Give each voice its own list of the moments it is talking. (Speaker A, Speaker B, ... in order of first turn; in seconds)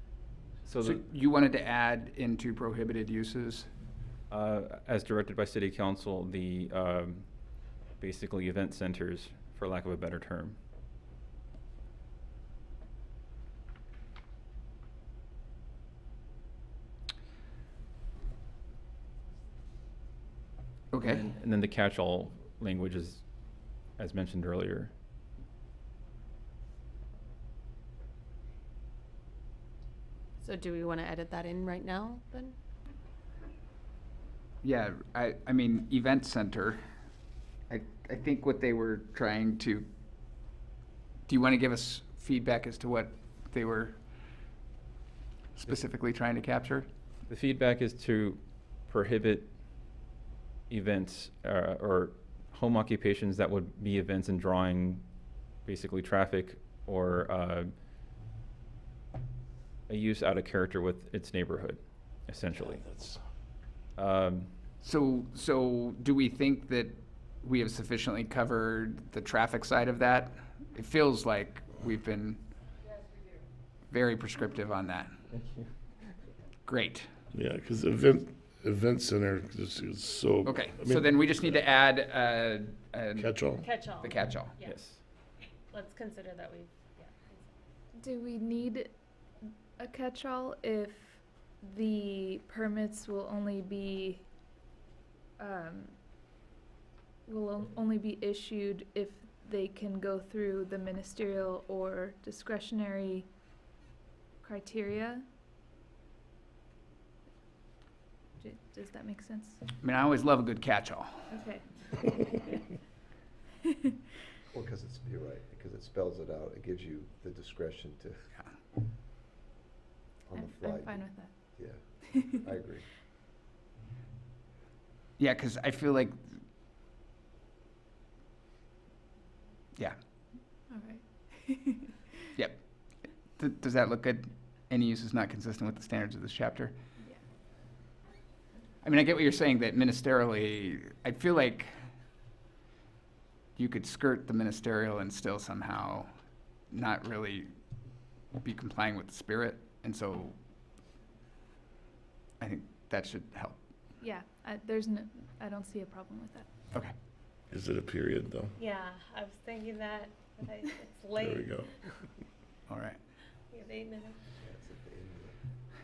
Speaker A: 0.3-0.7, 114.5-118.2, 120.3-122.9, 164.4-165.4
Speaker B: 0.7-1.0, 4.3-7.2, 8.0-10.6, 21.0-23.2, 24.0-24.9, 47.3-49.5, 50.7-55.0, 55.6-57.7, 59.9-62.9, 64.0-64.5, 84.6-85.0
Speaker C: 0.8-3.7, 20.9-21.2, 34.6-36.8, 37.7-39.9, 41.3-44.0, 45.5-46.9, 64.8-72.4, 73.9-75.2, 76.7-77.1, 80.4-83.5, 84.0-84.5, 109.8-111.2, 125.2-126.2, 132.3-132.6, 133.3-136.7, 138.8-141.8, 143.6-146.1, 146.7-147.5, 148.4-150.3, 152.4-153.6, 162.7-163.0
Speaker D: 30.4-32.5, 83.6-84.8, 85.7-87.5, 158.6-161.7, 163.5-164.2
Speaker E: 62.8-63.2, 77.3-81.1, 83.2-83.7, 157.5-158.5, 161.1-161.7
Speaker F: 87.9-88.9, 89.8-94.2, 95.4-95.9, 97.2-103.3, 104.4-105.2, 108.4-109.6, 111.3-111.6, 120.3-121.3, 122.1-122.4, 130.7-132.1, 154.0-156.5